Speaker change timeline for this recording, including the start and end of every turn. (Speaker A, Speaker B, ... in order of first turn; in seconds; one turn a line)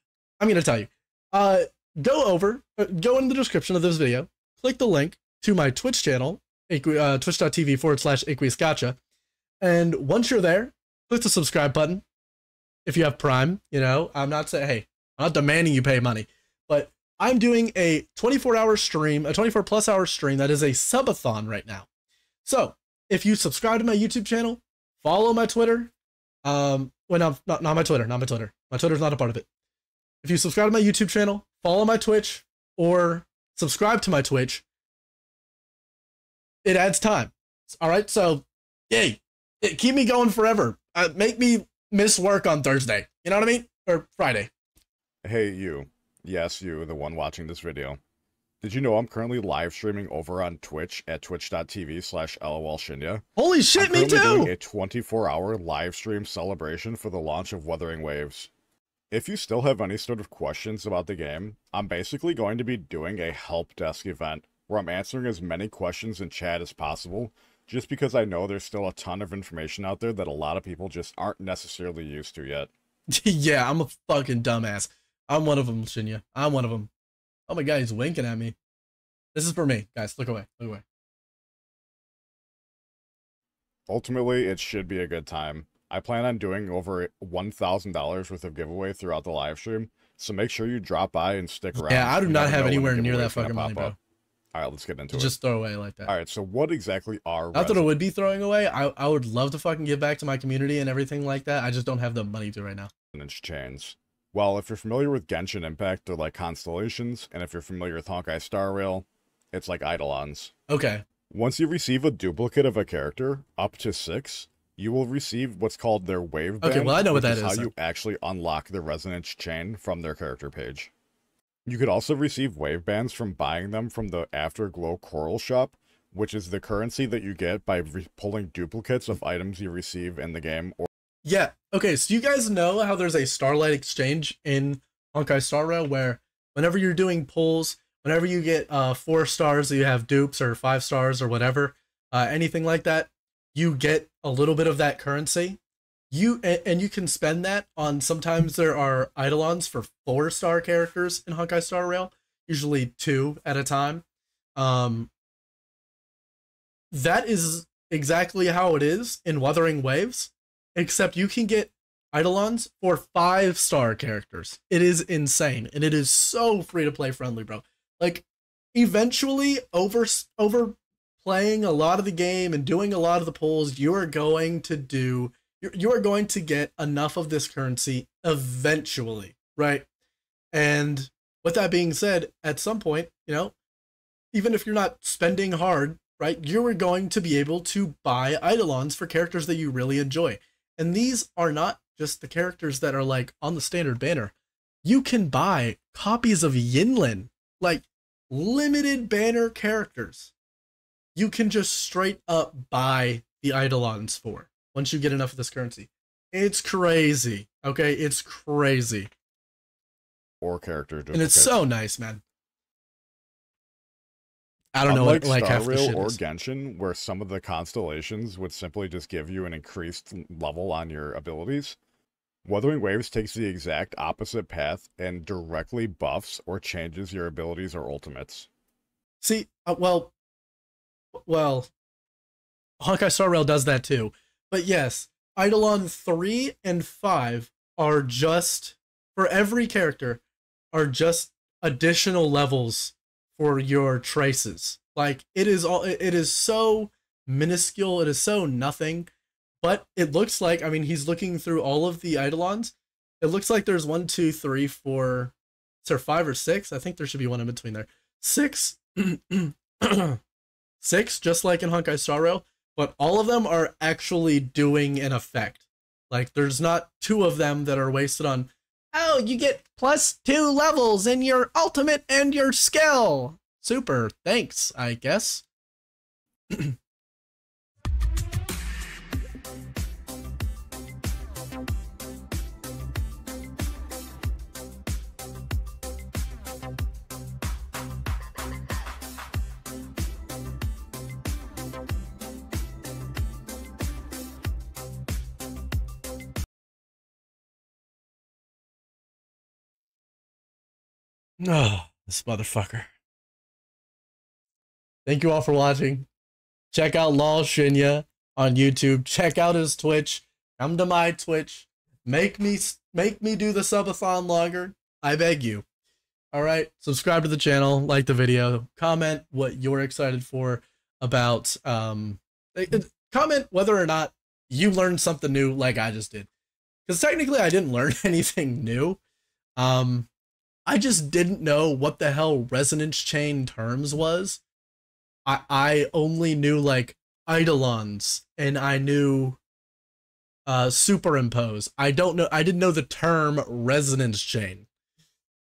Speaker A: 0.4-9.0
Speaker A: 9.6-12.0
Speaker A: 12.8-21.9
Speaker A: 22.4-25.9
Speaker A: 26.4-29.5
Speaker A: 30.2-34.6
Speaker A: 36.6-44.5
Speaker B: 45.2-48.0
Speaker B: 48.6-53.2
Speaker A: 53.4-54.5
Speaker B: 53.8-58.5
Speaker B: 59.1-72.7
Speaker A: 73.1-76.9
Speaker A: 77.5-78.5
Speaker A: 79.3-80.8
Speaker B: 83.9-93.9
Speaker A: 91.7-94.0
Speaker B: 94.5-95.3
Speaker A: 95.1-96.1
Speaker B: 96.1-97.9
Speaker A: 97.5-102.9
Speaker B: 103.1-110.5
Speaker A: 110.7-111.0
Speaker B: 111.3-120.9
Speaker A: 116.6-117.7
Speaker B: 121.7-130.9
Speaker A: 131.2-145.6
Speaker A: 146.1-154.0
Speaker A: 154.6-155.1
Speaker A: 156.9-179.8
Speaker A: 180.5-183.5
Speaker A: 184.3-200.3
Speaker A: 201.2-209.1
Speaker B: 210.4-211.6
Speaker A: 211.1-212.2
Speaker A: 214.7-216.2
Speaker B: 214.8-221.8
Speaker B: 222.4-228.5
Speaker A: 229.2-230.1
Speaker A: 231.2-231.7
Speaker A: 232.8-249.1
Speaker A: 249.6-260.2
Speaker A: 260.8-275.4
Speaker A: 276.5-276.8
Speaker A: 301.4-302.9
Speaker A: 305.1-306.1
Speaker A: 306.7-315.6
Speaker A: 316.3-326.3
Speaker A: 326.9-329.0
Speaker A: 329.6-330.1
Speaker A: 330.7-334.4
Speaker A: 335.2-339.4
Speaker A: 340.5-344.7